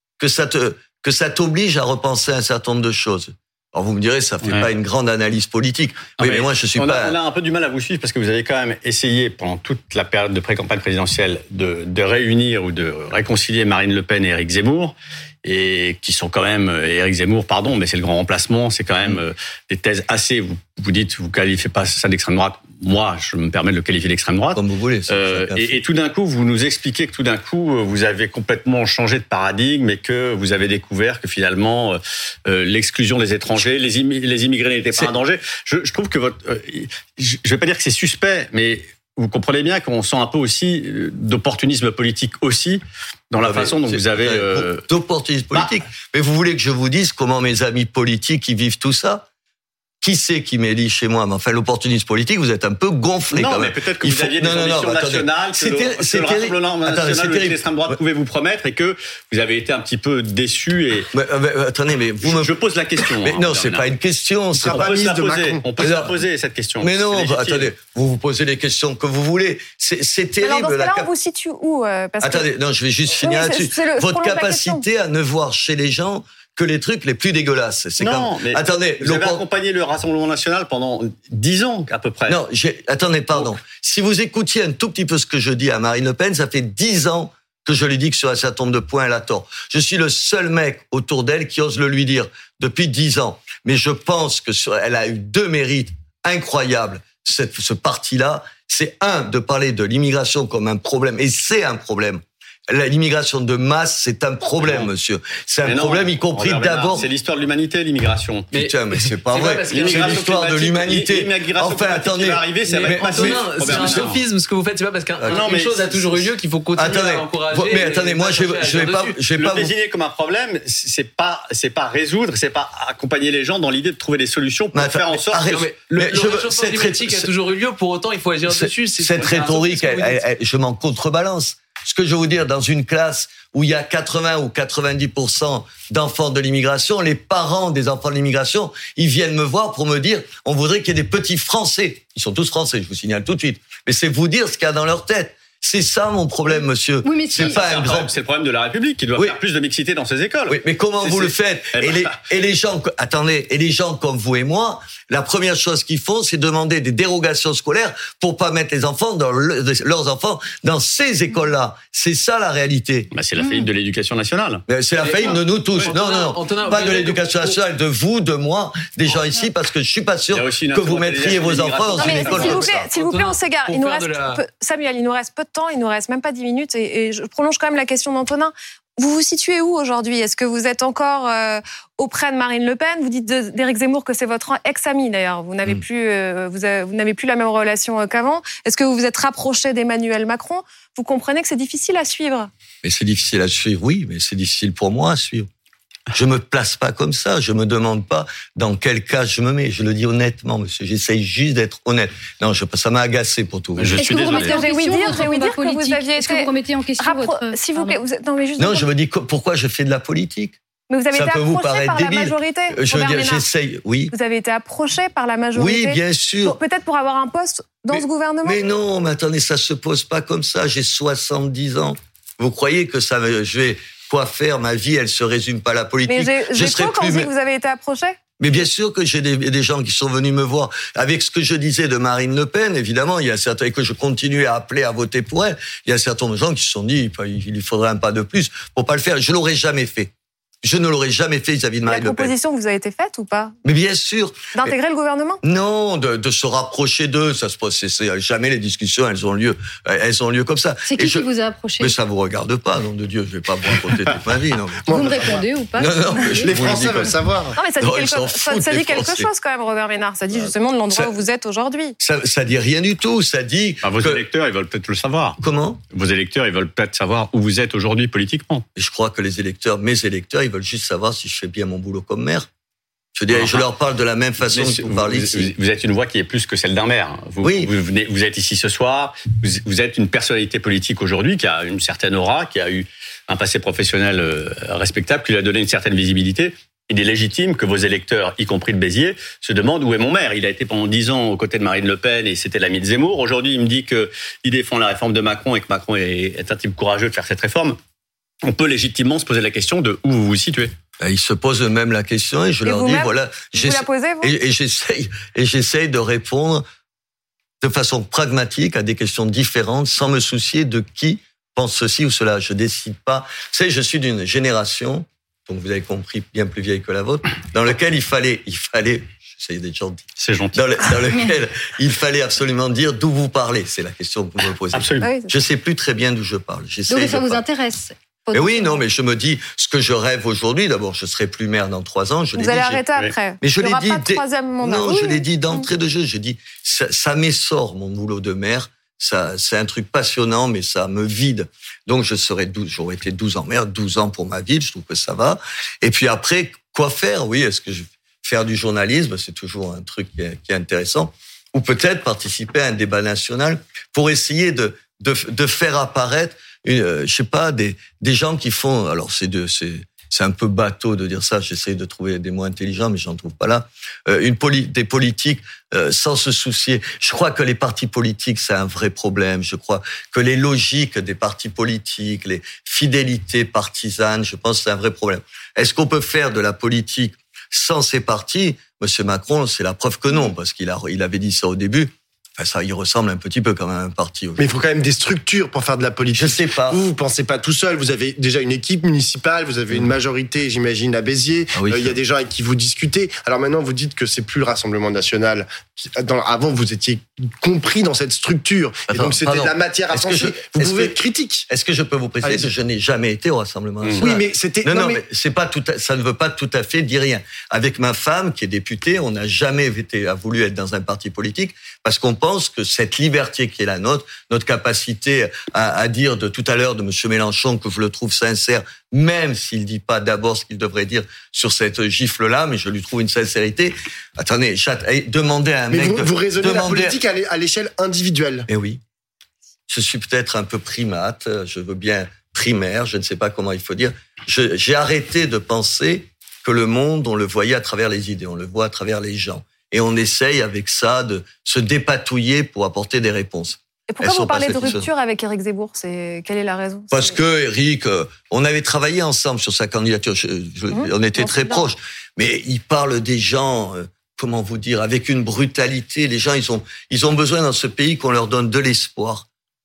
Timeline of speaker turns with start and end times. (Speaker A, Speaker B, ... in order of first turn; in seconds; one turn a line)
Speaker A: 0.2-7.2
Speaker B: 6.2-44.8
Speaker A: 24.5-25.8
Speaker A: 43.4-49.2
Speaker A: 50.0-58.0
Speaker B: 53.3-61.1
Speaker A: 61.1-62.5
Speaker B: 62.2-63.9
Speaker A: 63.0-65.0
Speaker C: 64.5-65.7
Speaker B: 64.7-67.7
Speaker A: 65.8-66.2
Speaker A: 66.8-71.1
Speaker D: 70.4-72.5
Speaker A: 72.2-79.4
Speaker D: 73.1-74.8
Speaker B: 78.0-82.4
Speaker A: 82.3-107.1
Speaker B: 105.6-108.5
Speaker A: 108.5-114.1
Speaker E: 108.5-110.3
Speaker B: 109.7-114.2
Speaker E: 112.7-119.2
Speaker A: 115.2-115.5
Speaker B: 115.3-116.2
Speaker A: 116.8-119.7
Speaker B: 119.3-125.6
Speaker A: 124.7-127.3
Speaker E: 125.5-130.2
Speaker A: 128.5-148.1
Speaker F: 147.0-147.6
Speaker B: 147.3-152.2
Speaker A: 150.5-163.1
Speaker B: 163.1-164.6
Speaker A: 164.7-172.9
Speaker E: 165.0-167.6
Speaker B: 170.3-172.7
Speaker D: 172.0-192.5
Speaker E: 172.9-174.4
Speaker A: 192.8-195.5
Speaker A: 196.1-204.1
Speaker B: 203.8-204.6
Speaker F: 203.9-208.0
Speaker D: 204.3-208.9
Speaker A: 208.6-210.6
Speaker D: 210.9-213.4
Speaker A: 211.1-214.1
Speaker D: 214.1-218.6
Speaker A: 215.5-216.6
Speaker A: 217.9-227.3
Speaker D: 226.1-228.2
Speaker A: 228.4-240.1
Speaker A: 240.6-242.3
Speaker D: 241.9-243.5
Speaker A: 243.6-244.7
Speaker D: 244.5-245.4
Speaker A: 245.4-251.3
Speaker F: 250.9-251.9
Speaker A: 251.8-259.3
Speaker F: 254.9-256.8
Speaker C: 256.4-257.6
Speaker D: 257.5-262.0
Speaker A: 260.3-261.1
Speaker A: 262.0-264.2
Speaker B: 263.8-265.4
Speaker A: 265.4-265.8
Speaker B: 265.9-268.6
Speaker A: 268.8-272.5
Speaker A: 273.1-275.5
Speaker B: 273.3-273.6
Speaker B: 274.5-297.8
Speaker A: 277.4-277.7
Speaker B: 298.4-300.7
Speaker A: 301.0-306.6
Speaker D: 302.6-304.3
Speaker A: 307.6-327.4
Speaker B: 320.2-320.6
Speaker B: 324.7-325.1
Speaker D: 325.0-325.3
Speaker F: 326.9-328.8
Speaker A: 328.3-332.9
Speaker D: 332.3-335.7
Speaker A: 333.4-384.5
Speaker C: 384.4-401.5
Speaker A: 386.1-386.8
Speaker A: 391.5-392.0
Speaker A: 398.9-427.0
Speaker C: 402.2-402.5
Speaker C: 404.0-405.0
Speaker C: 425.7-428.5
Speaker A: 428.5-428.8
Speaker A: 429.7-444.9
Speaker D: 443.9-447.2
Speaker A: 446.9-459.3
Speaker D: 450.7-451.6